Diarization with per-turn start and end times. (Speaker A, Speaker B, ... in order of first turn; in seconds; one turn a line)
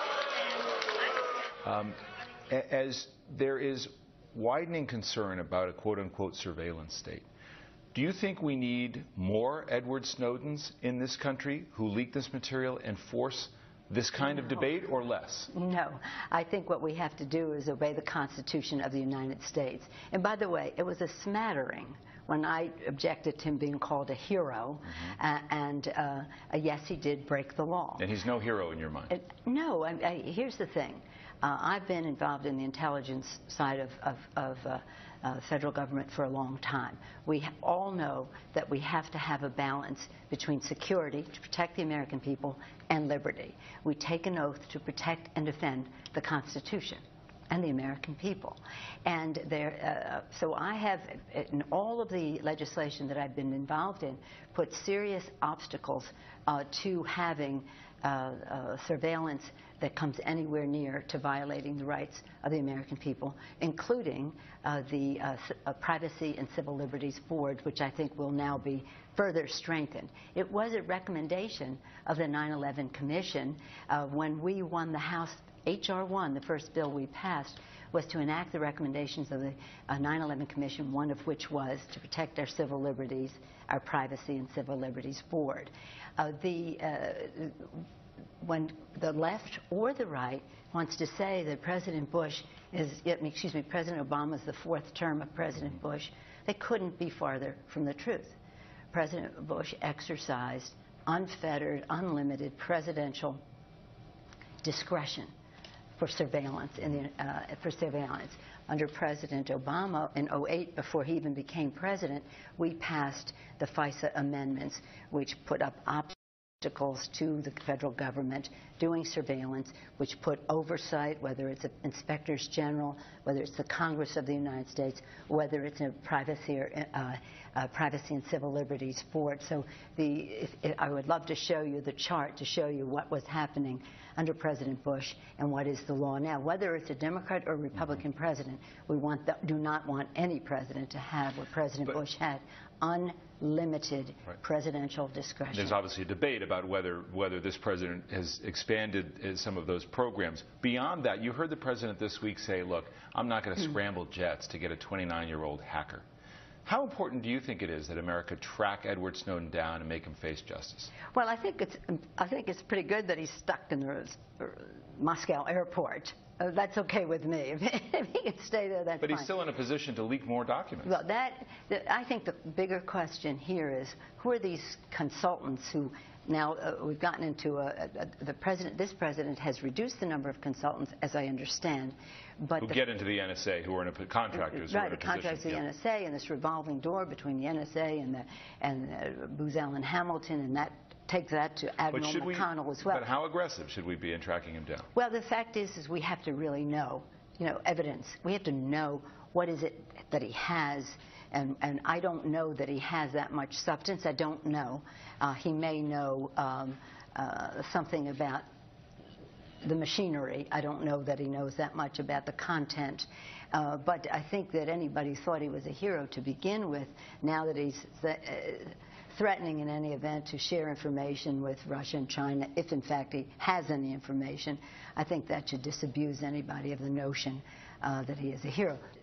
Speaker A: 1.6-2.0
Speaker A: 2.5-7.2
Speaker A: 7.9-15.5
Speaker B: 15.5-28.1
Speaker A: 28.0-29.1
Speaker B: 29.1-87.8
Speaker B: 88.4-98.3
Speaker B: 98.9-103.4
Speaker B: 104.6-105.3
Speaker B: 106.0-145.8
Speaker A: 145.5-156.1
Speaker A: 156.7-160.9
Speaker B: 161.1-169.3
Speaker A: 169.0-171.0
Speaker B: 170.8-182.8
Speaker A: 182.6-185.6
Speaker B: 184.5-193.0
Speaker A: 191.9-194.9
Speaker B: 194.9-208.4
Speaker B: 209.6-228.8